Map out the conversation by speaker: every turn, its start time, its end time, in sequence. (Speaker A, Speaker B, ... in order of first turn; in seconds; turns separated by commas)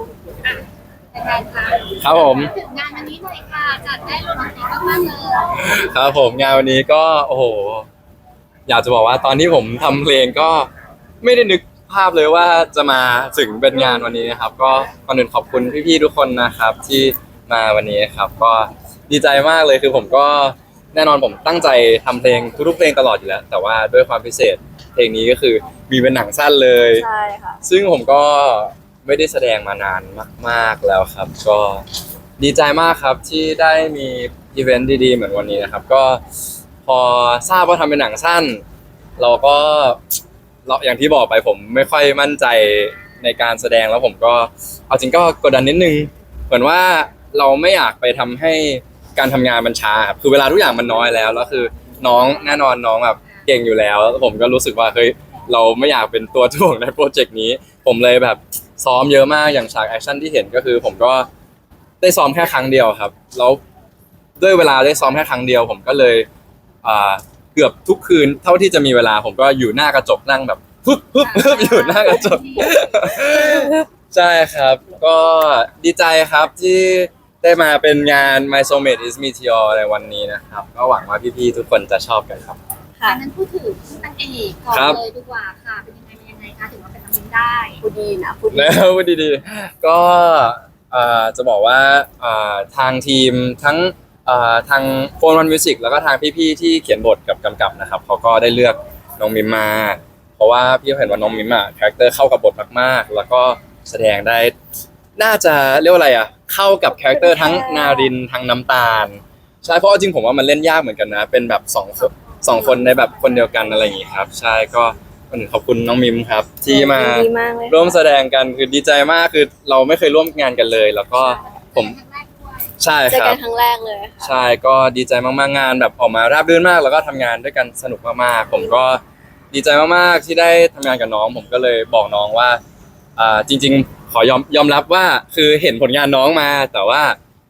Speaker A: 1.1-5.6, Speaker B: 2.0-2.5, Speaker B: 5.5-7.9, Speaker B: 8.7-10.7, Speaker B: 11.2-27.1, Speaker C: 26.9-27.6, Speaker B: 27.6-31.8, Speaker B: 32.4-36.2, Speaker B: 36.9-38.6, Speaker B: 39.2-40.0, Speaker B: 40.6-61.3, Speaker B: 62.0-63.6, Speaker B: 64.4-66.3, Speaker B: 66.8-82.6, Speaker A: 71.2-72.8, Speaker C: 73.3-73.8, Speaker A: 83.0-87.8, Speaker B: 84.7-85.0, Speaker C: 87.8-88.8, Speaker B: 88.5-104.5, Speaker B: 105.2-122.0, Speaker C: 107.1-108.1, Speaker A: 112.3-113.3, Speaker C: 116.7-117.9, Speaker A: 121.1-122.7, Speaker B: 122.8-123.4, Speaker C: 123.1-124.3, Speaker B: 124.2-129.0, Speaker B: 129.5-132.6, Speaker B: 133.2-137.2